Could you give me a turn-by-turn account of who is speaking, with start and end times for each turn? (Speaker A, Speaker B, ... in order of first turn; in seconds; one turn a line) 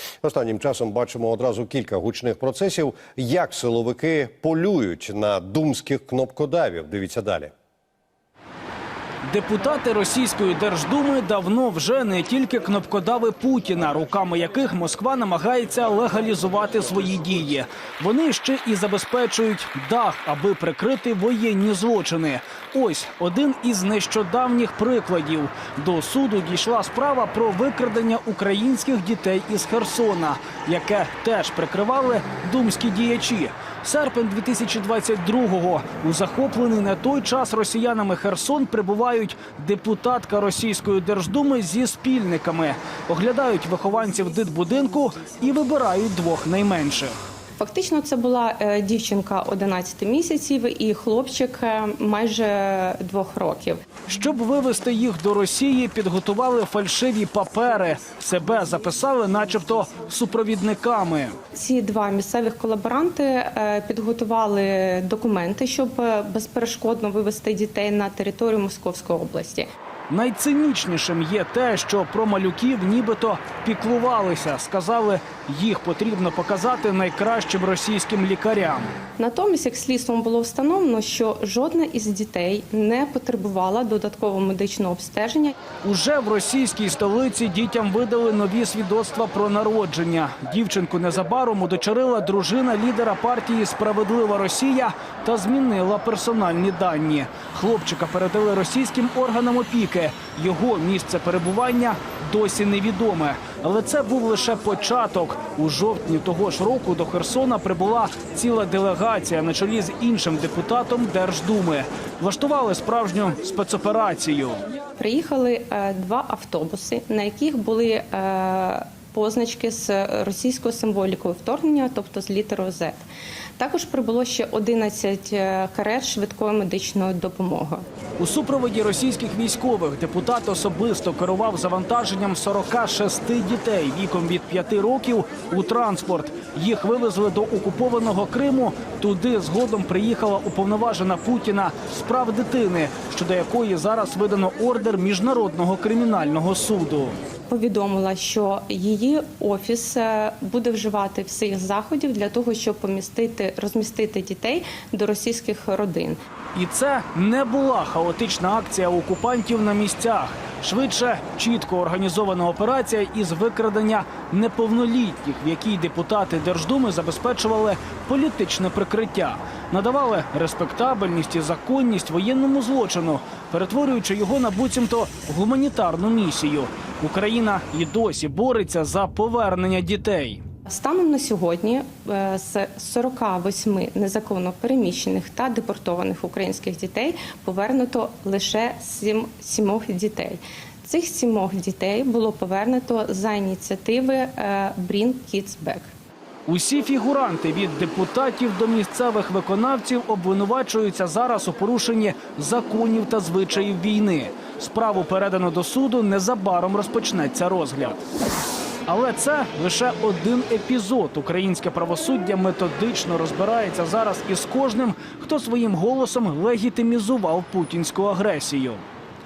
Speaker A: 0.2-7.5
Speaker B: 9.2-47.1
Speaker C: 47.6-53.8
Speaker B: 54.1-61.4
Speaker C: 61.5-69.7
Speaker B: 70.1-78.9
Speaker C: 79.2-85.5
Speaker B: 85.8-114.6
Speaker C: 115.0-123.0
Speaker C: 123.6-127.8
Speaker B: 128.2-147.2
Speaker C: 147.5-156.2
Speaker B: 156.5-180.4
Speaker C: 180.7-195.9
Speaker B: 196.5-208.0
Speaker B: 208.9-218.8